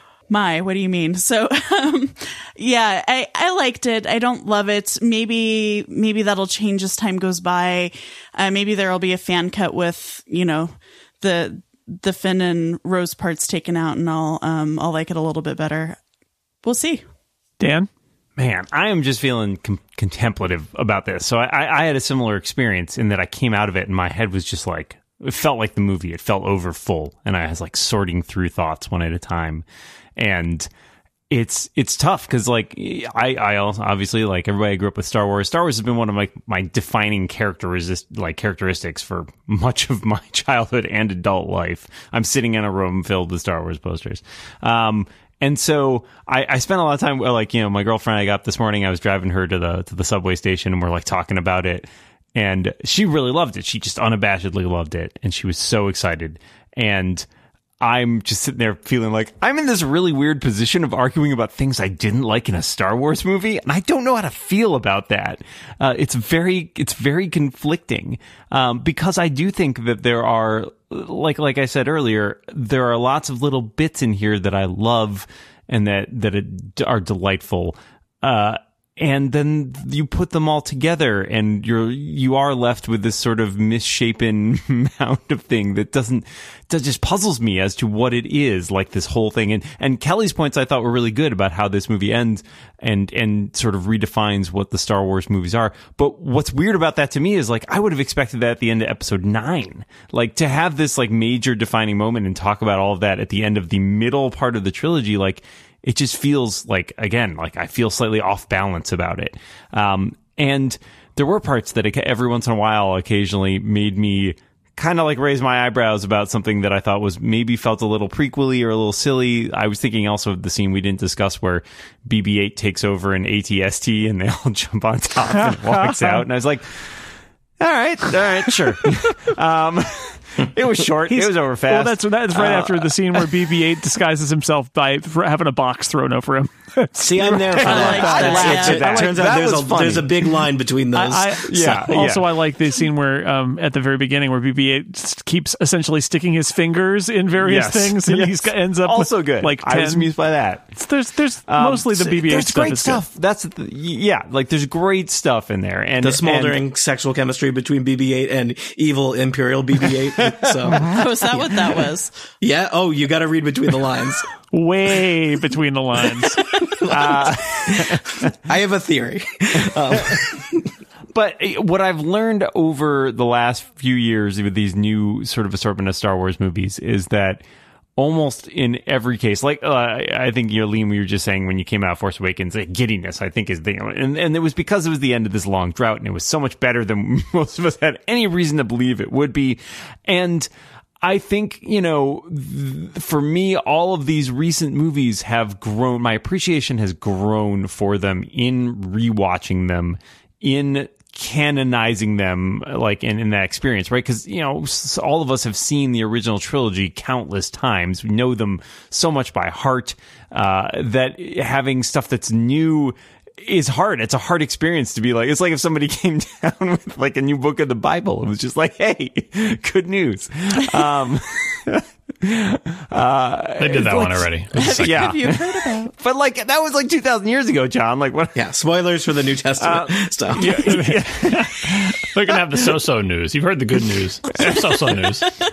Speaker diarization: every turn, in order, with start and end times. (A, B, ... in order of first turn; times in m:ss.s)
0:00.3-0:16.0 A
0:16.6-0:17.0 A
0:17.6-0:17.9 B
0:18.4-0:29.6 C
0:30.2-0:30.7 C
0:31.3-0:57.3 C
0:57.8-2:06.9 C
2:05.4-2:06.2 B
2:07.6-2:12.9 C
2:11.1-2:18.5 B
2:17.0-2:21.3 D
2:17.6-2:19.1 A
2:17.6-2:20.2 C
2:20.9-2:30.1 B
2:21.4-2:22.3 C
2:27.4-2:30.8 C
2:30.7-2:33.0 B
2:31.5-2:36.6 C
2:36.0-2:41.8 D
2:40.8-2:42.1 A
2:42.4-2:44.2 D
2:44.5-2:46.4 B
2:46.8-2:50.6 D
2:46.9-2:48.3 C
2:49.9-2:50.2 C
2:51.1-2:57.4 C
2:58.0-3:10.5 C
3:11.0-3:48.4 C
3:43.6-3:45.1 E
3:44.6-3:45.9 A
3:48.3-3:50.5 D
3:49.6-3:51.9 C
3:50.7-3:55.2 E